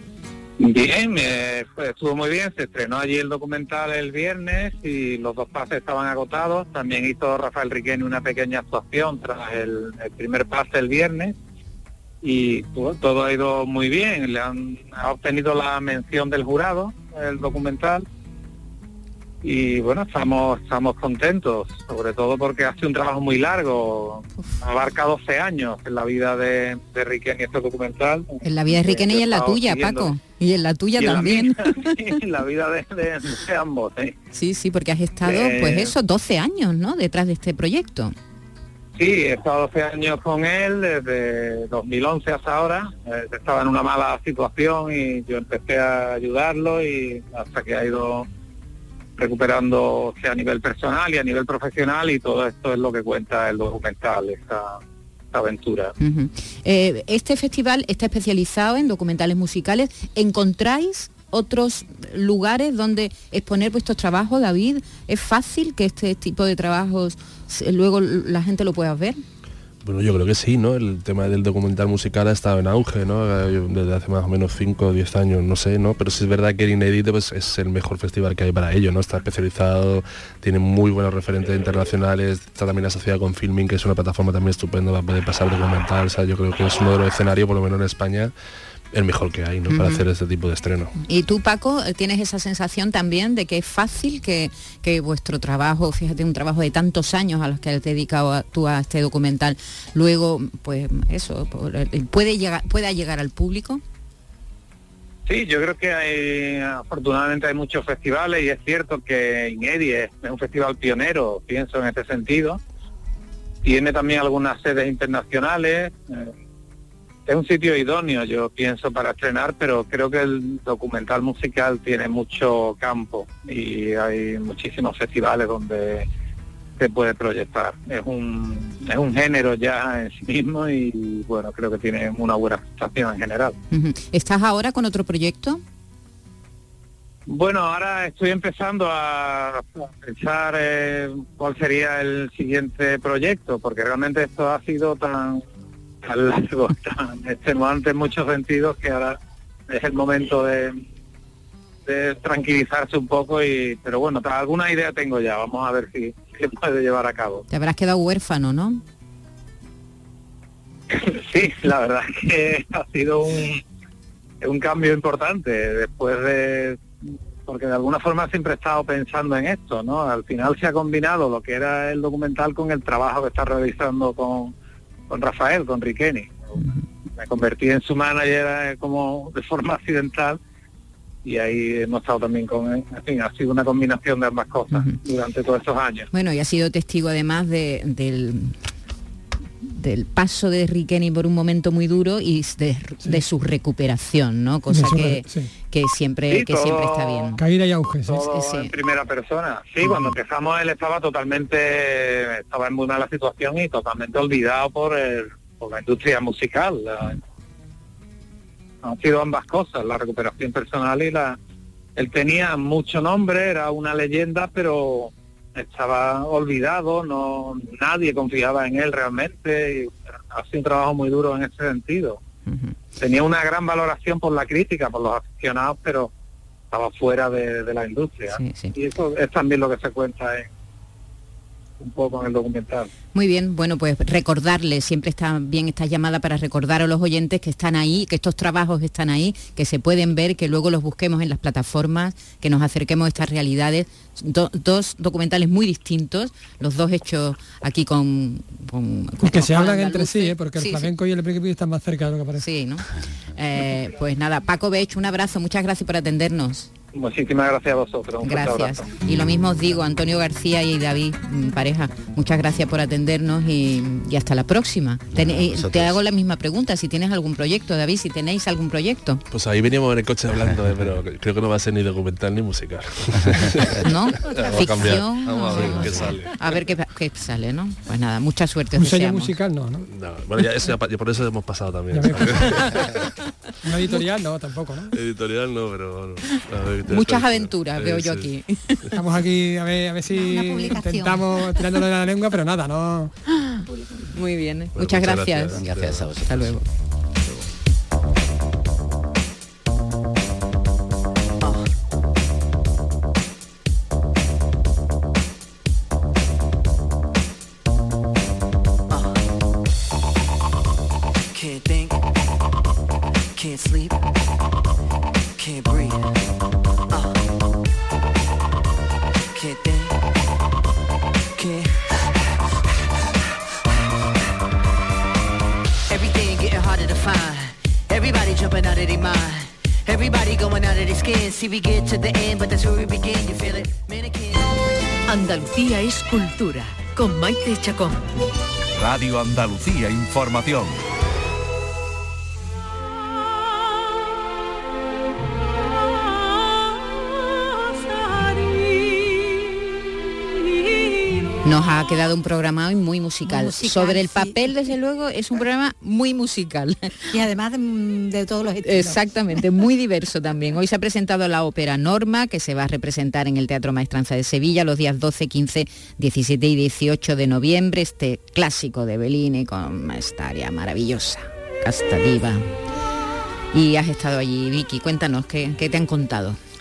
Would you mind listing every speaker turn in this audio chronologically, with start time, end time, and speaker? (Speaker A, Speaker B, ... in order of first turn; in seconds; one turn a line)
Speaker A: 0.6-11.3
Speaker A: 12.2-18.0
Speaker A: 19.4-30.1
Speaker B: 28.4-32.2
Speaker A: 31.0-34.1
Speaker B: 34.3-38.1
Speaker A: 35.2-35.9
Speaker A: 39.0-48.2
Speaker A: 49.2-54.8
Speaker A: 55.3-55.9
Speaker B: 56.0-69.2
Speaker C: 69.8-88.3
Speaker C: 88.9-90.9
Speaker B: 89.7-90.0
Speaker B: 91.1-103.8
Speaker A: 105.3-112.6
Speaker A: 113.6-116.3
Speaker A: 117.3-126.1
Speaker A: 126.8-133.5
Speaker B: 133.7-135.6
Speaker A: 137.3-145.4
Speaker A: 146.0-149.2
Speaker A: 149.7-150.8
Speaker A: 151.8-157.4
Speaker B: 157.5-158.8
Speaker A: 160.9-163.6
Speaker A: 164.4-166.8
Speaker A: 167.4-174.5
Speaker A: 175.1-176.5
Speaker B: 176.6-176.8
Speaker A: 177.1-180.4
Speaker A: 181.2-186.1
Speaker B: 184.7-185.0
Speaker B: 186.1-188.6
Speaker B: 189.7-197.4
Speaker D: 194.7-195.5
Speaker A: 196.3-197.3
Speaker D: 197.4-198.2
Speaker A: 198.1-207.2
Speaker B: 198.3-198.7
Speaker A: 208.8-211.4
Speaker A: 212.0-222.2
Speaker B: 222.5-222.7
Speaker A: 223.0-226.1
Speaker A: 226.7-230.5
Speaker B: 228.3-228.8
Speaker A: 231.8-232.9
Speaker B: 233.1-250.9
Speaker D: 249.2-252.4
Speaker B: 252.4-256.7
Speaker A: 256.9-258.9
Speaker B: 258.2-269.2
Speaker E: 265.1-266.0
Speaker C: 269.3-276.4
Speaker B: 273.8-279.3
Speaker D: 278.8-279.9
Speaker C: 279.9-283.1
Speaker D: 281.9-282.9
Speaker D: 283.6-284.9
Speaker C: 284.9-288.3
Speaker B: 286.9-288.8
Speaker D: 288.9-293.1
Speaker F: 290.1-291.8
Speaker B: 293.3-295.6
Speaker C: 294.8-296.1
Speaker E: 295.5-296.6
Speaker B: 296.2-296.6
Speaker G: 301.4-301.7
Speaker G: 308.9-309.2
Speaker G: 311.3-312.0
Speaker G: 313.3-314.0
Speaker G: 315.4-316.2
Speaker G: 316.9-317.2
Speaker G: 319.3-320.0
Speaker G: 321.4-322.1
Speaker G: 325.9-338.0
Speaker H: 338.8-340.8
Speaker B: 351.4-357.0
Speaker F: 353.2-354.6
Speaker F: 357.1-359.4
Speaker B: 358.6-372.5
Speaker B: 373.5-376.4